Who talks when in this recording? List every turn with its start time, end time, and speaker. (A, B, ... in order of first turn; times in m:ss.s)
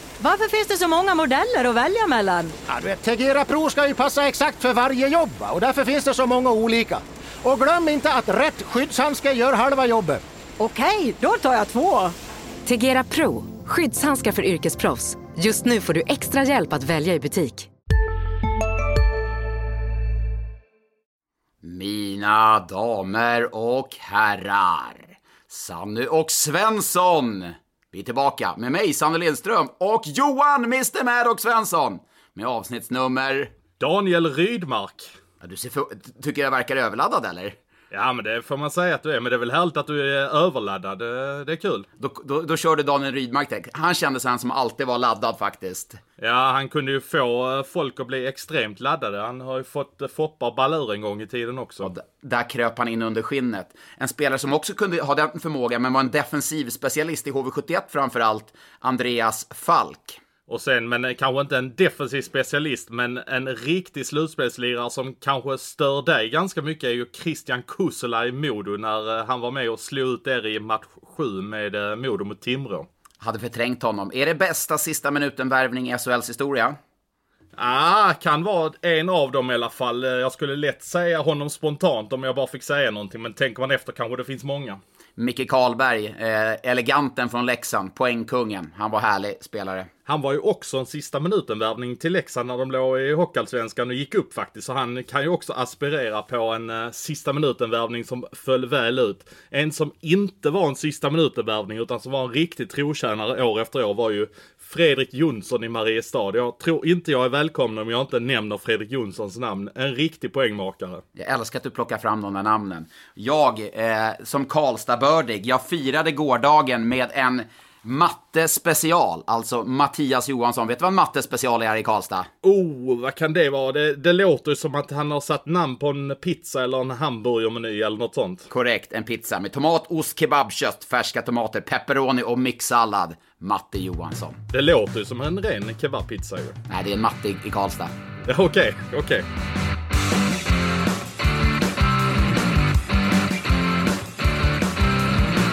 0:00.2-0:02.6 A
0:02.7-0:10.2 B
0:10.6-0:12.1 A
0:12.6-0:17.7 C
0:21.6-0:33.5 D
0:33.8-0:35.1 E
0:35.4-0:37.6 D
0:37.9-0:41.9 E
0:42.0-0:46.0 D
0:46.2-0:51.9 E
0:51.8-1:00.2 D
1:00.5-1:12.9 E
1:13.2-1:16.8 D
1:17.6-1:24.8 E
1:25.2-1:29.9 D
1:30.0-1:51.0 E
1:51.2-2:02.3 D
2:02.4-2:08.5 E
2:08.5-2:14.4 D
2:14.5-2:16.6 E
2:16.7-2:17.9 D
2:18.2-2:19.2 E